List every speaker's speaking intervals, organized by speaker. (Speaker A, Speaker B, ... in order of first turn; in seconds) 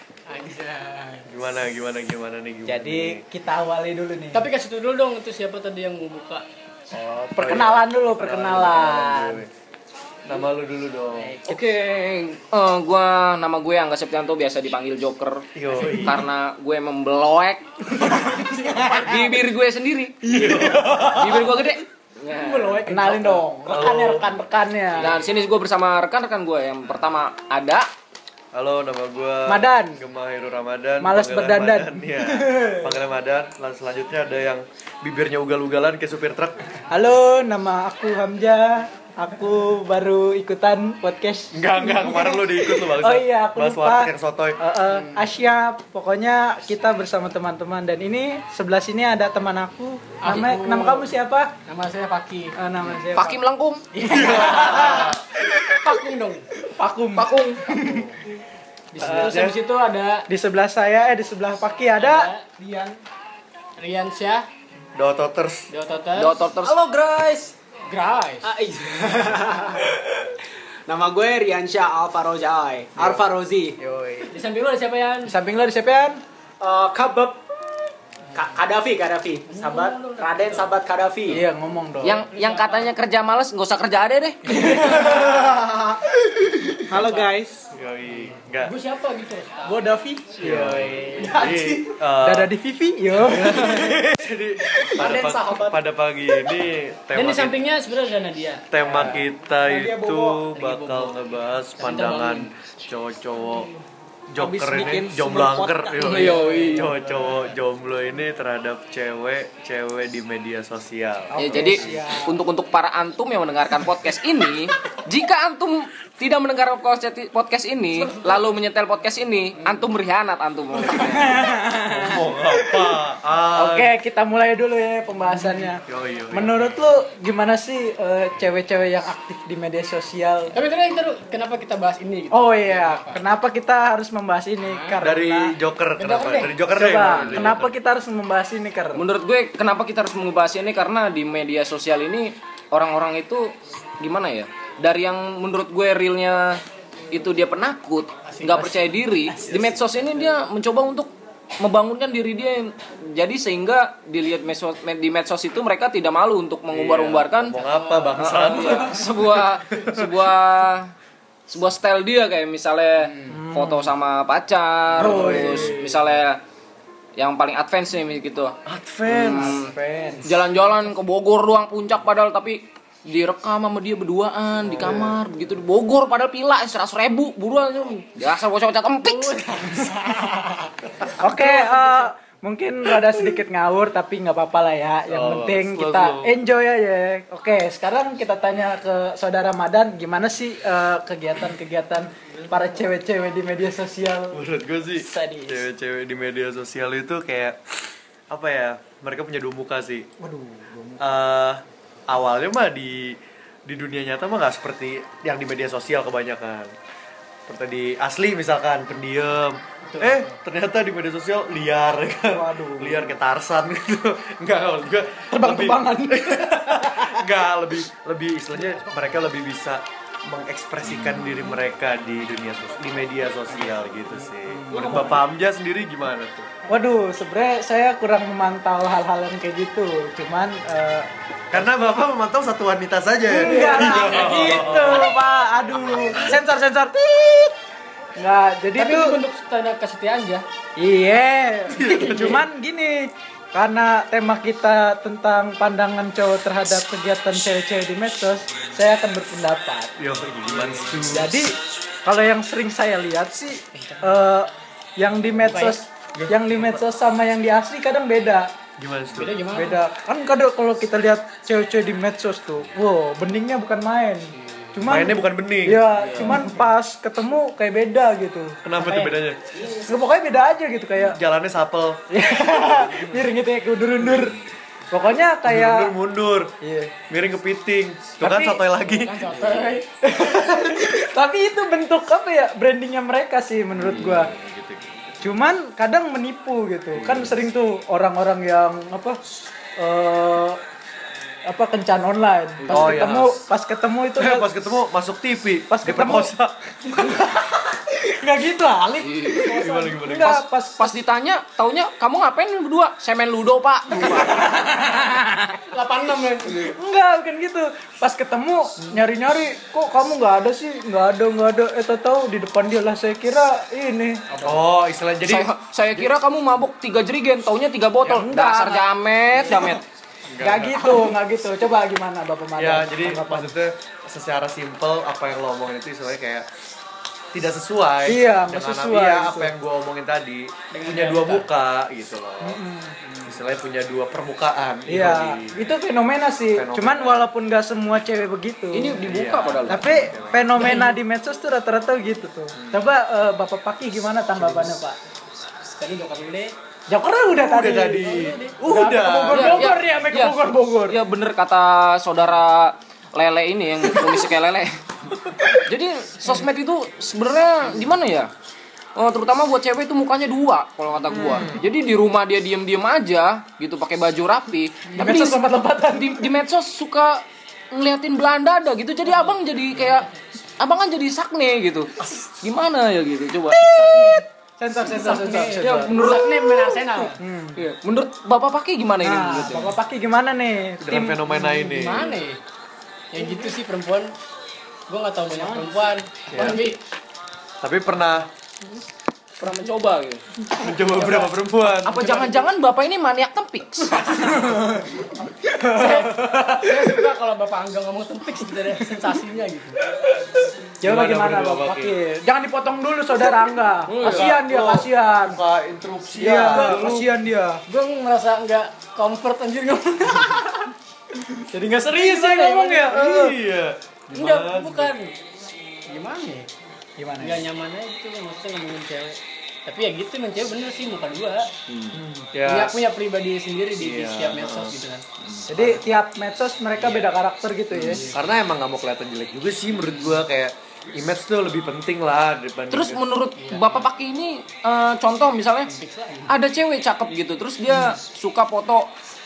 Speaker A: 0.3-1.3, 4.3-6.5, 23.0-23.3, 50.2-51.1, 51.7-52.6, 53.9-55.2, 55.8-56.5, 58.9-60.3, 61.9-62.5, 63.8-64.5, 65.7-68.5, 74.3-75.4, 79.5-80.7, 82.3-82.9, 84.6-85.1, 86.9-87.3, 88.5-89.9, 97.1-99.2, 100.5-101.2, 101.8-102.5, 118.0-118.4, 130.5-133.2, 134.6-135.0, 136.0-136.6, 148.2-148.9, 157.5-158.8, 179.1-180.2, 181.4-182.0, 224.7-225.2, 238.7-240.4, 253.8-254.2, 255.4-255.8, 259.1-259.8, 264.4-264.7, 268.8-269.1, 278.9-279.9, 299.6-299.9, 305.7-306.7, 330.7-331.5, 333.0-333.3, 340.6-340.9, 344.4-344.8, 345.8-346.5, 369.1-370.0, 373.6-374.2, 374.8-377.2, 381.3-382.4, 383.1-384.1, 384.9-386.8, 390.9-391.3, 391.9-392.4, 394.1-394.5, 395.6-399.8, 406.5-407.0, 407.7-410.6, 412.0-412.4, 414.1-415.1, 415.9-416.5, 417.2-421.5, 422.4-425.0, 427.7-428.2, 433.4-433.8, 435.7-436.3
Speaker B: 1.3-3.2, 6.9-9.5, 10.2-11.4, 15.5-16.2, 20.3-21.5, 23.6-24.4, 28.5-36.6, 41.5-44.6, 54.0-55.2, 59.0-59.5, 64.9-65.7, 73.0-73.3, 73.8-74.1, 87.7-88.7, 90.4-92.5, 93.1-97.6, 98.7-103.7, 104.3-112.1, 121.9-123.9, 125.8-126.8, 135.0-137.7, 156.7-160.3, 165.0-165.8, 168.6-169.6, 174.6-175.2, 185.1-186.4, 194.3-200.1, 201.0-206.7, 207.5-226.5, 231.5-235.2, 235.8-236.4, 241.7-242.4, 250.0-251.3, 256.1-256.8, 258.8-259.6, 264.8-266.1, 268.6-269.4, 271.0-272.0, 274.0-274.4, 275.4-276.5, 277.1-279.8, 283.7-285.3, 286.9-287.4, 292.7-293.4, 294.1-297.2, 299.5-300.4, 314.4-316.1, 320.3-321.1, 322.6-326.4, 327.3-332.6, 333.2-335.7, 336.5-337.3, 339.0-340.7, 342.6-342.9, 347.3-349.8, 361.1-361.6, 380.8-382.2, 386.3-386.7, 387.6-388.3, 390.6-392.0, 400.8-401.9, 403.9-407.1, 412.1-414.9, 421.7-422.8, 423.8-424.8, 425.3-425.8, 427.8-433.0
Speaker C: 2.7-4.5, 7.3-9.4, 20.3-20.8, 22.9-25.2, 29.5-30.0, 31.0-33.0, 36.9-51.5, 52.6-53.4, 54.0-55.1, 56.6-58.1, 59.0-59.5, 60.3-62.3, 75.2-76.2, 81.3-82.2, 84.5-85.4, 86.9-87.3, 92.2-94.0, 98.9-99.2, 111.3-112.4, 120.8-123.0, 123.5-130.6, 132.3-135.5, 136.7-139.0, 163.3-163.9, 165.0-165.9, 169.2-170.3, 181.2-194.4, 195.0-195.7, 200.3-200.9, 212.3-213.2, 215.3-217.2, 224.5-225.2, 226.7-231.1, 233.3-237.5, 238.2-239.2, 240.8-249.9, 250.5-258.5, 259.5-268.6, 269.8-271.2, 272.1-274.4, 274.9-275.9, 276.6-276.9, 278.2-278.6, 280.0-284.3, 285.2-289.2, 289.8-290.6, 291.5-294.5, 295.7-296.3, 296.9-301.0, 304.0-305.6, 306.6-314.4, 318.0-318.9, 320.4-323.5, 328.1-329.5, 332.4-332.9, 334.9-339.0, 339.7-345.0, 346.9-351.0, 364.9-366.3, 374.6-376.1, 377.0-377.6, 379.0-381.3, 385.4-385.7, 394.3-394.9, 395.4-396.9, 400.8-405.4, 406.2-407.6, 411.4-413.4, 417.0-417.4, 421.9-422.3, 425.5-428.1
Speaker D: 11.4-20.3, 21.1-22.9, 25.0-27.9, 53.1-53.8, 57.2-57.6, 66.2-66.8, 82.0-84.6, 106.0-106.9, 111.3-121.5, 138.9-146.6, 147.1-157.6, 158.1-160.9, 161.5-166.4, 167.2-179.4, 266.0-266.5, 292.6-293.0, 299.0-299.5, 300.8-304.6, 315.2-319.8, 338.7-339.8, 349.3-354.8, 355.6-358.3, 358.9-373.7, 375.6-376.8, 377.5-379.7, 389.4-390.2, 391.8-394.4, 403.9-404.4, 432.7-435.7, 436.3-438.9
Speaker E: 20.3-21.2, 22.4-23.4, 62.5-63.0, 66.8-67.5, 68.4-70.3, 70.9-74.2, 76.6-77.4, 78.3-81.4, 84.5-86.0, 86.7-87.6, 89.6-92.0, 95.0-95.8, 99.0-100.5, 104.4-107.3